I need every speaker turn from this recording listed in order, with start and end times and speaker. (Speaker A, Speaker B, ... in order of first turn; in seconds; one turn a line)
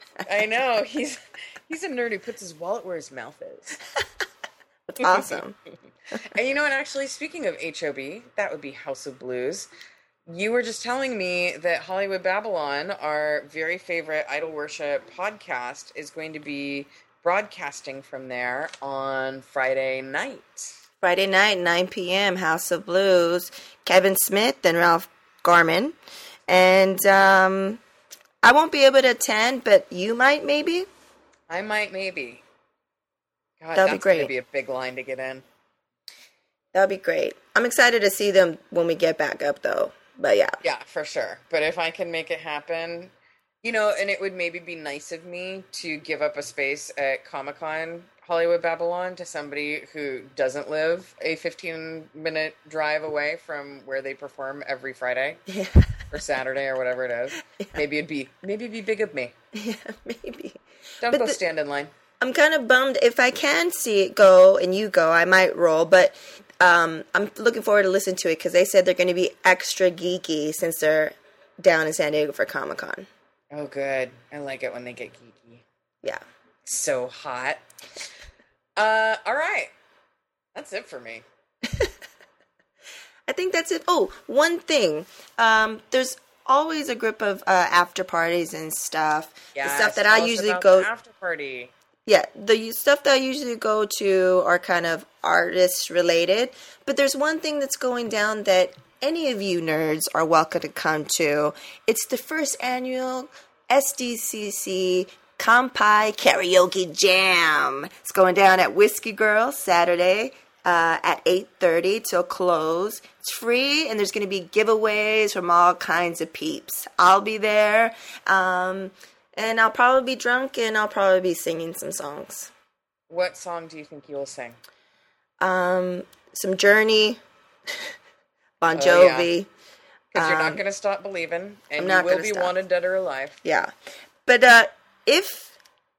Speaker A: 0.2-3.8
Speaker B: 4.9-5.5
Speaker A: 5.0-5.4
Speaker A: 6.1-9.7
Speaker A: 10.3-20.7
Speaker B: 21.0-25.9
Speaker B: 26.5-27.8
Speaker B: 28.4-30.9
Speaker A: 31.5-32.4
Speaker A: 33.6-35.4
Speaker B: 33.7-34.3
Speaker B: 36.7-40.6
Speaker A: 40.6-55.4
Speaker B: 55.5-56.0
Speaker A: 56.1-59.3
Speaker B: 59.5-61.4
Speaker A: 61.0-61.9
Speaker B: 62.2-73.1
Speaker A: 73.5-75.6
Speaker A: 76.6-77.6
Speaker A: 78.8-79.7
Speaker A: 80.5-81.2
Speaker B: 81.7-81.9
Speaker B: 83.3-90.9
Speaker A: 89.5-91.7
Speaker B: 92.0-122.5
Speaker A: 123.1-124.6
Speaker B: 125.4-127.9
Speaker B: 128.6-129.5
Speaker A: 128.7-129.3
Speaker A: 130.1-133.4
Speaker B: 130.1-130.6
Speaker B: 131.8-132.5
Speaker B: 133.4-133.7
Speaker B: 134.2-135.6